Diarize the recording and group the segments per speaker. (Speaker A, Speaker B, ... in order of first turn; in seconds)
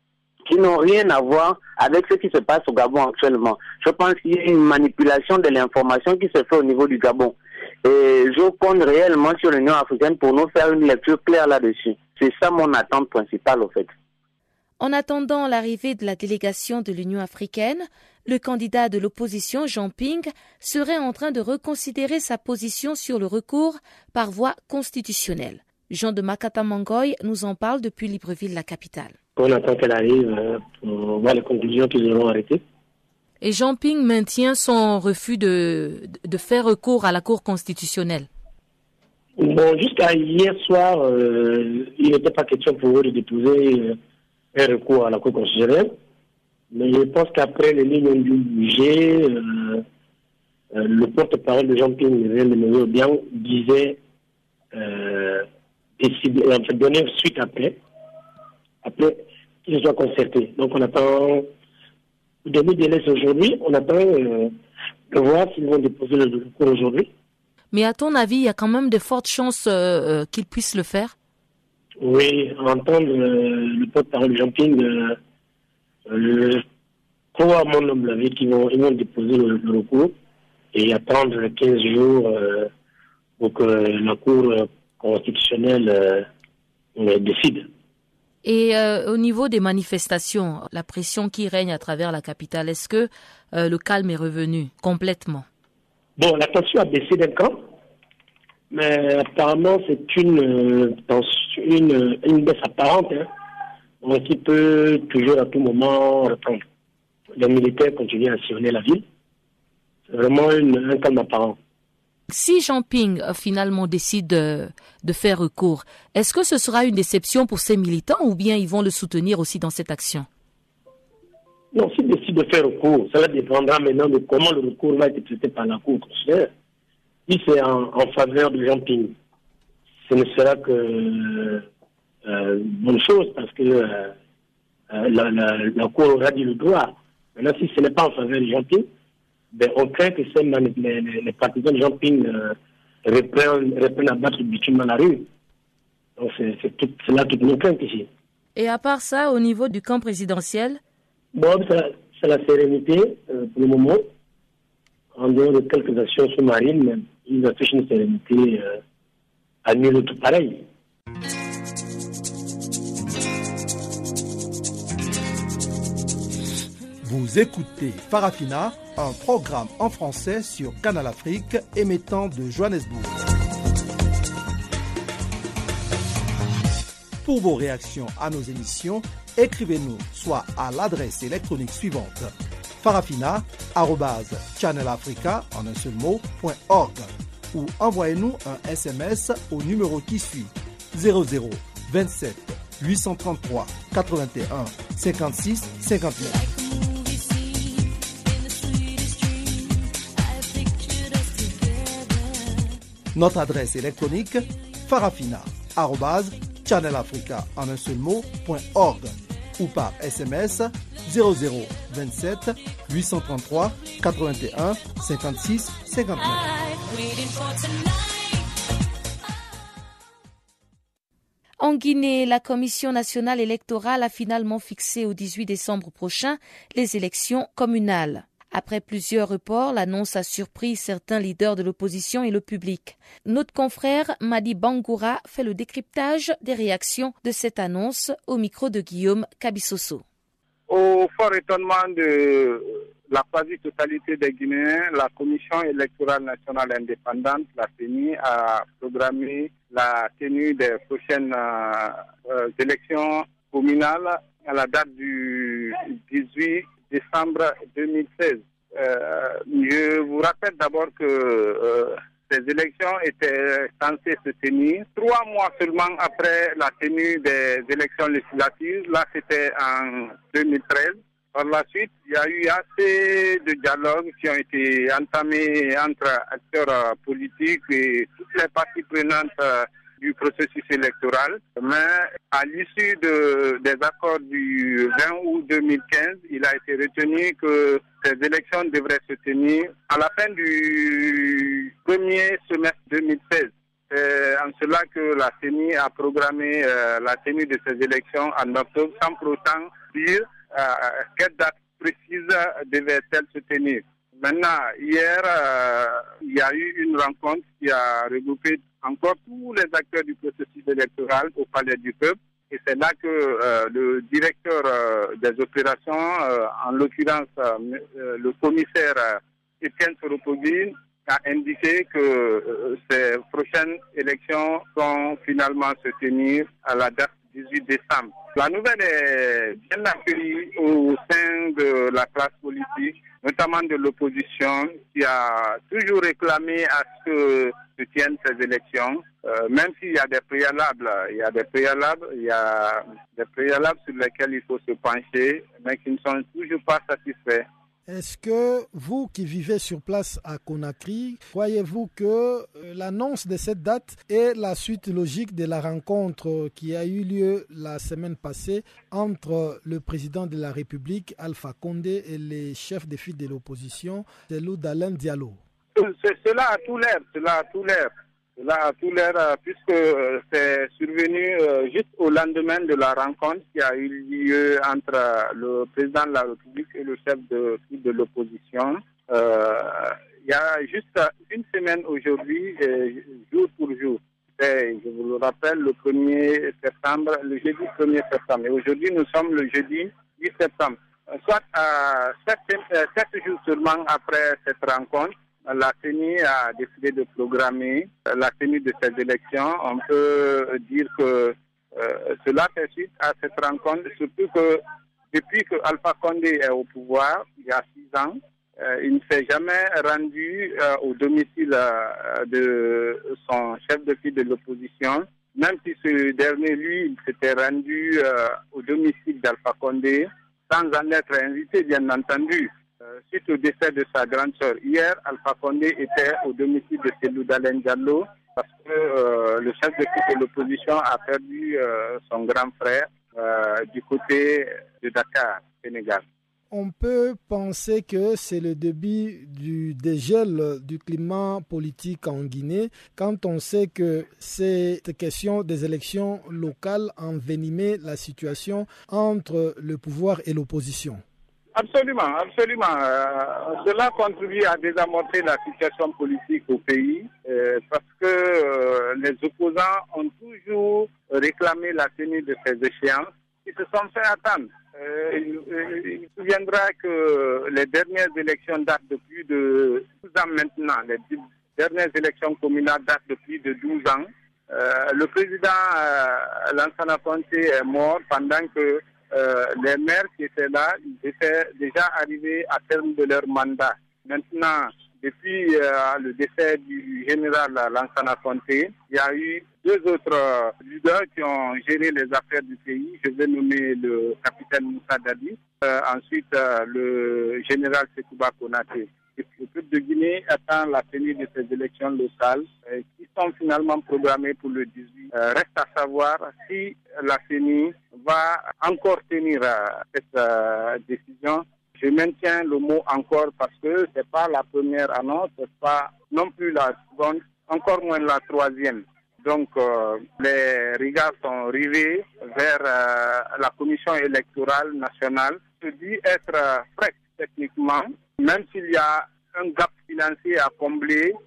Speaker A: 0.4-13.9
Speaker B: 14.8-29.1, 33.4-38.3, 67.7-71.1, 88.4-95.5, 112.3-120.3, 148.5-150.8, 221.6-240.0
Speaker C: 29.4-32.6, 39.4-44.0, 44.5-46.0, 46.7-49.8, 50.7-54.0, 54.7-55.5, 56.0-57.8, 58.8-61.5, 62.4-64.5, 65.1-67.1, 72.0-75.2, 76.1-76.6, 77.3-80.1, 80.7-82.7, 83.4-86.3, 87.0-87.7, 96.2-97.7, 98.7-103.3, 104.0-106.6, 107.4-109.0, 110.1-111.6, 121.7-126.5, 127.3-129.1, 130.1-131.6, 132.2-134.1, 134.9-138.9, 139.5-145.3, 146.2-148.1, 151.3-154.1, 155.1-158.8, 159.6-160.6
Speaker D: 167.0-173.2, 177.2-196.4, 203.1-216.5
Speaker E: 240.7-347.4, 365.7-404.6, 405.1-422.5, 423.0-436.0, 451.5-531.1
Speaker F: 347.9-365.4, 436.5-451.0